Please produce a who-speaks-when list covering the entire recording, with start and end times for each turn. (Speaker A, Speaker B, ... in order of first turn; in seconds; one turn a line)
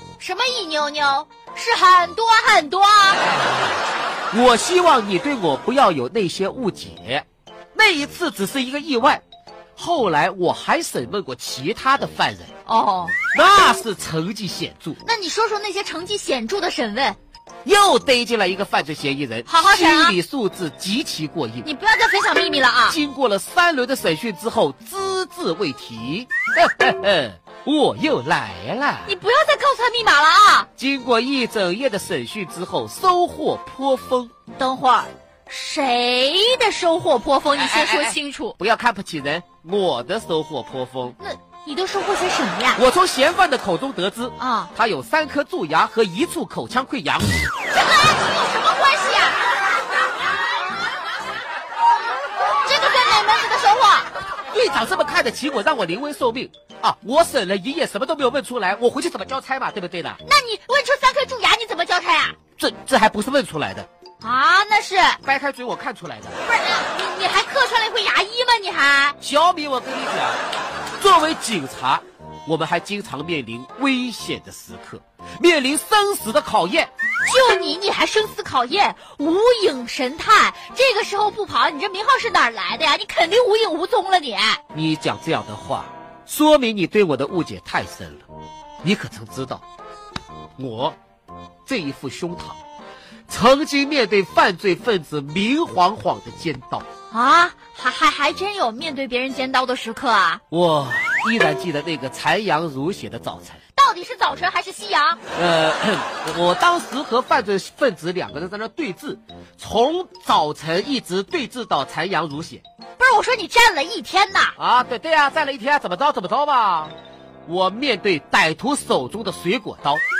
Speaker A: 0.2-3.4
Speaker B: 4.3-9.2
Speaker B: 9.8-12.5
Speaker A: 12.7-13.2
Speaker B: 13.3-15.0
Speaker A: 15.0-17.2
Speaker B: 17.6-21.6
Speaker A: 19.5-20.2
Speaker A: 21.6-23.0
Speaker B: 22.9-29.1
Speaker A: 29.1-30.7
Speaker B: 30.8-34.3
Speaker A: 34.5-38.6
Speaker B: 37.6-41.1
Speaker A: 41.2-42.8
Speaker B: 42.8-47.4
Speaker A: 44.4-44.7
Speaker A: 47.7-49.5
Speaker A: 52.6-54.1
Speaker B: 54.5-60.2
Speaker A: 60.2-62.4
Speaker B: 62.6-63.9
Speaker A: 64.2-65.2
Speaker B: 65.2-66.4
Speaker A: 66.5-69.2
Speaker B: 69.2-70.4
Speaker B: 71.0-76.9
Speaker A: 77.2-84.6
Speaker B: 84.7-88.2
Speaker B: 88.8-89.6
Speaker B: 90.6-91.0
Speaker B: 91.7-92.6
Speaker B: 93.3-96.9
Speaker A: 97.1-100.4
Speaker B: 100.5-103.6
Speaker A: 103.8-105.2
Speaker B: 105.3-112.6
Speaker A: 113.0-114.5
Speaker B: 114.6-116.9
Speaker B: 117.5-120.0